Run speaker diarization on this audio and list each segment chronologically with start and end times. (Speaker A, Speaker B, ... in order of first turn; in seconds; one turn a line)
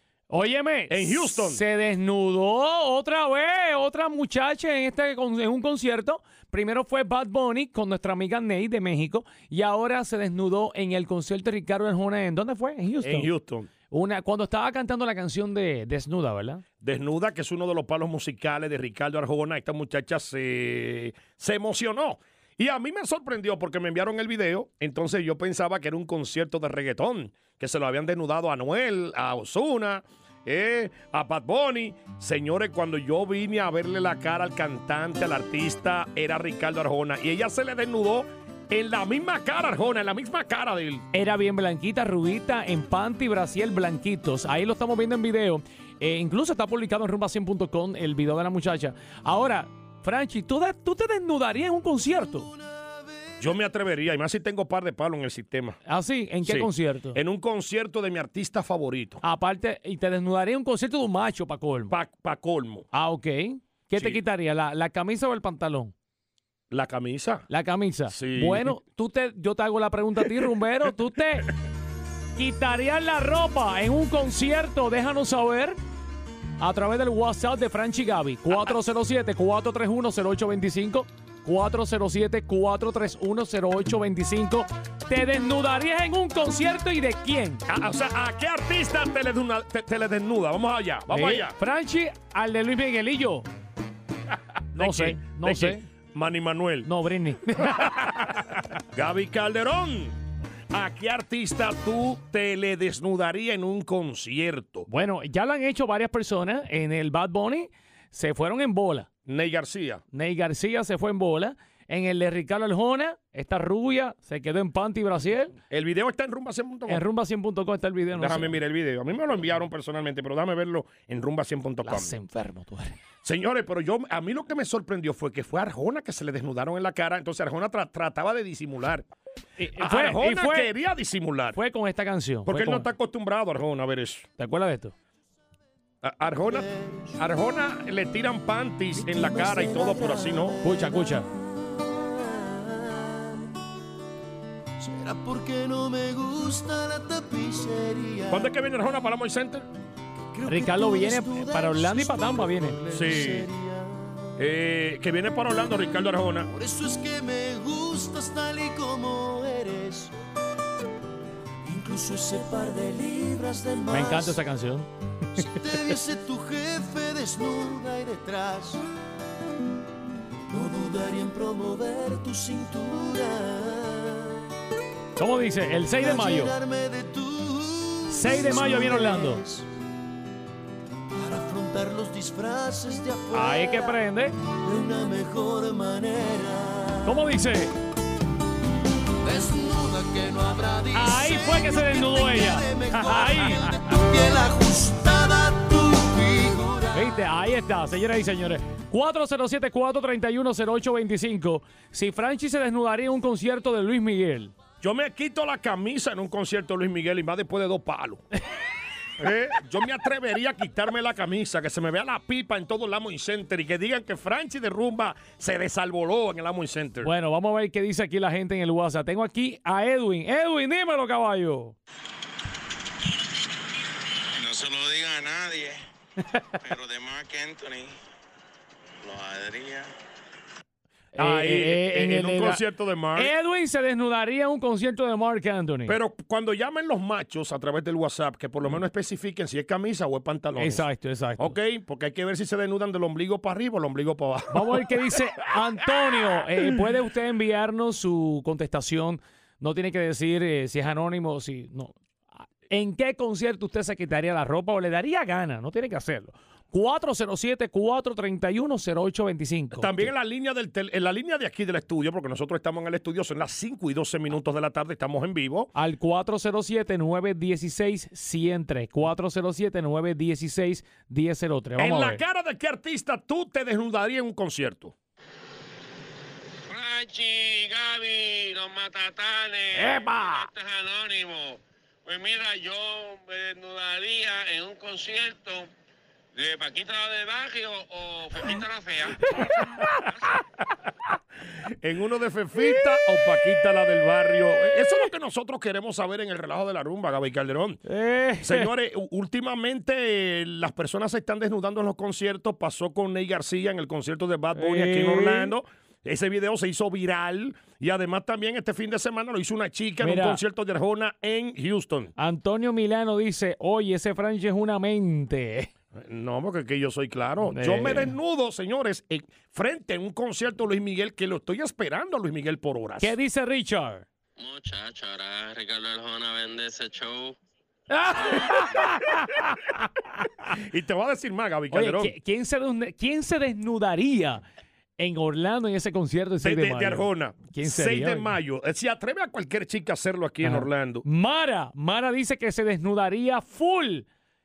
Speaker A: 0.3-13.3
Speaker B: 0.9-1.6
Speaker B: 13.0-13.7
Speaker A: 13.9-16.6
Speaker B: 16.8-41.0
Speaker A: 41.1-52.5
Speaker C: 52.6-53.3
Speaker B: 53.4-55.8
Speaker A: 55.9-57.2
Speaker B: 56.4-59.2
Speaker A: 59.2-61.9
Speaker B: 61.9-62.9
Speaker A: 62.9-65.9
Speaker B: 63.9-64.2
Speaker B: 66.7-67.5
Speaker A: 67.5-71.5
Speaker B: 68.1-68.7
Speaker A: 72.3-75.8
Speaker A: 76.6-87.6
Speaker B: 87.7-91.5
Speaker A: 91.1-93.5
Speaker A: 94.7-95.8
Speaker B: 94.7-96.9
Speaker A: 96.8-98.1
Speaker B: 98.8-100.2
Speaker B: 100.7-104.9
Speaker A: 104.9-109.1
Speaker B: 109.2-110.0
Speaker A: 110.1-115.5
Speaker B: 115.7-117.0
Speaker A: 116.9-118.5
Speaker B: 118.1-122.1
Speaker A: 121.8-123.0
Speaker B: 123.2-129.1
Speaker A: 129.6-130.7
Speaker B: 129.8-131.6
Speaker A: 131.5-132.9
Speaker B: 132.4-134.3
Speaker A: 134.4-134.9
Speaker B: 136.0-140.6
Speaker C: 136.4-137.1
Speaker C: 139.0-141.1
Speaker A: 140.6-141.3
Speaker C: 141.6-143.5
Speaker C: 144.8-148.5
Speaker B: 148.3-149.7
Speaker C: 150.3-154.3
Speaker A: 150.4-152.8
Speaker B: 152.9-153.5
Speaker B: 154.4-156.5
Speaker C: 156.5-160.1
Speaker C: 161.6-164.4
Speaker A: 163.9-164.9
Speaker C: 165.4-168.8
Speaker C: 170.5-174.5
Speaker A: 175.2-176.5
Speaker C: 175.9-179.7
Speaker A: 178.1-179.4
Speaker C: 181.1-183.9
Speaker A: 183.3-184.3
Speaker C: 184.6-187.2
Speaker A: 187.0-187.7
Speaker C: 189.2-197.1
Speaker A: 190.9-193.8
Speaker A: 196.9-204.5
Speaker B: 204.8-208.2
Speaker B: 209.2-217.1
Speaker A: 217.0-221.8
Speaker D: 224.4-225.8
Speaker D: 226.6-227.9
Speaker D: 229.0-229.9
Speaker A: 231.1-232.6
Speaker B: 231.2-233.3
Speaker A: 233.1-236.0
Speaker B: 235.8-240.8
Speaker A: 240.6-241.5
Speaker B: 241.4-244.9
Speaker A: 244.5-251.9
Speaker A: 252.7-260.1
Speaker B: 259.7-265.7
Speaker A: 265.7-272.2
Speaker B: 271.8-274.9
Speaker D: 276.7-285.7
Speaker A: 279.8-280.5
Speaker D: 286.3-289.3
Speaker B: 291.8-297.8
Speaker A: 292.8-293.2
Speaker A: 294.6-294.9
Speaker A: 297.9-298.7
Speaker B: 298.4-312.1
Speaker A: 304.5-305.5
Speaker A: 310.0-310.4
Speaker A: 312.2-315.7
Speaker B: 315.9-323.1
Speaker A: 317.4-318.1
Speaker A: 323.0-324.1
Speaker D: 324.4-327.4
Speaker A: 327.9-329.4
Speaker B: 330.5-332.1
Speaker A: 331.7-334.4
Speaker A: 335.0-338.4
Speaker B: 336.4-341.1
Speaker A: 340.4-344.1